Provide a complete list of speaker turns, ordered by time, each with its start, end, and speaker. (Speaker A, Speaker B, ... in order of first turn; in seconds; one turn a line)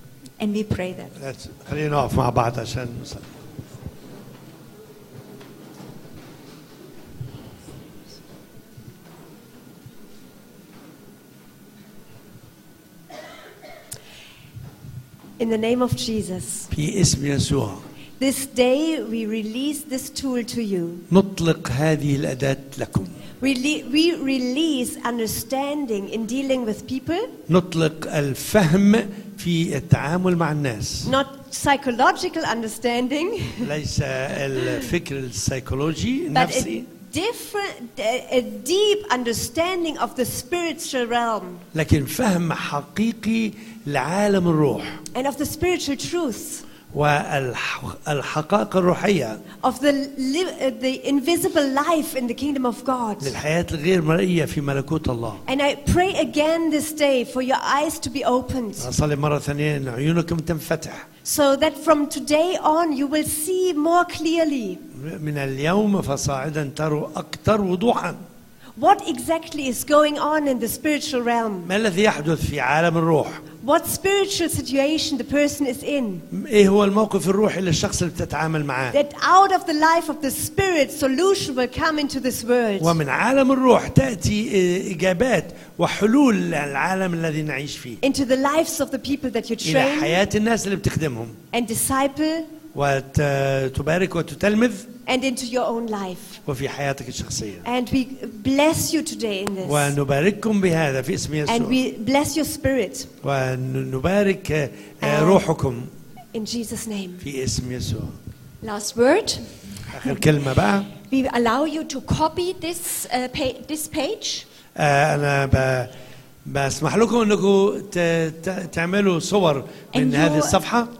Speaker A: 0.4-1.1
Speaker B: 1.2-3.3
Speaker C: 15.4-16.7
Speaker B: 16.7-17.8
Speaker C: 18.2-21.0
Speaker B: 21.1-23.1
Speaker C: 23.4-27.3
Speaker B: 27.5-31.1
Speaker C: 31.0-33.7
Speaker B: 33.6-36.9
Speaker C: 36.3-41.6
Speaker B: 41.7-44.9
Speaker C: 45.1-46.6
Speaker B: 46.9-49.4
Speaker C: 49.6-53.4
Speaker B: 53.2-55.4
Speaker C: 55.5-58.9
Speaker B: 58.8-61.0
Speaker C: 61.2-64.8
Speaker B: 64.9-68.2
Speaker C: 68.8-71.7
Speaker B: 71.6-73.4
Speaker C: 73.6-76.2
Speaker B: 76.3-79.0
Speaker C: 78.9-83.0
Speaker B: 82.8-88.0
Speaker C: 88.0-90.2
Speaker B: 89.6-91.4
Speaker C: 91.5-92.5
Speaker B: 92.7-94.9
Speaker C: 95.0-96.4
Speaker B: 96.5-97.7
Speaker C: 97.6-100.0
Speaker B: 99.6-101.8
Speaker C: 101.5-103.1
Speaker B: 103.2-105.9
Speaker C: 105.0-105.4
Speaker C: 106.3-107.2
Speaker B: 107.2-108.2
Speaker A: 108.6-109.4
Speaker B: 109.9-110.9
Speaker A: 111.1-114.4
Speaker B: 114.7-115.9
Speaker B: 116.4-120.9
Speaker A: 119.9-120.6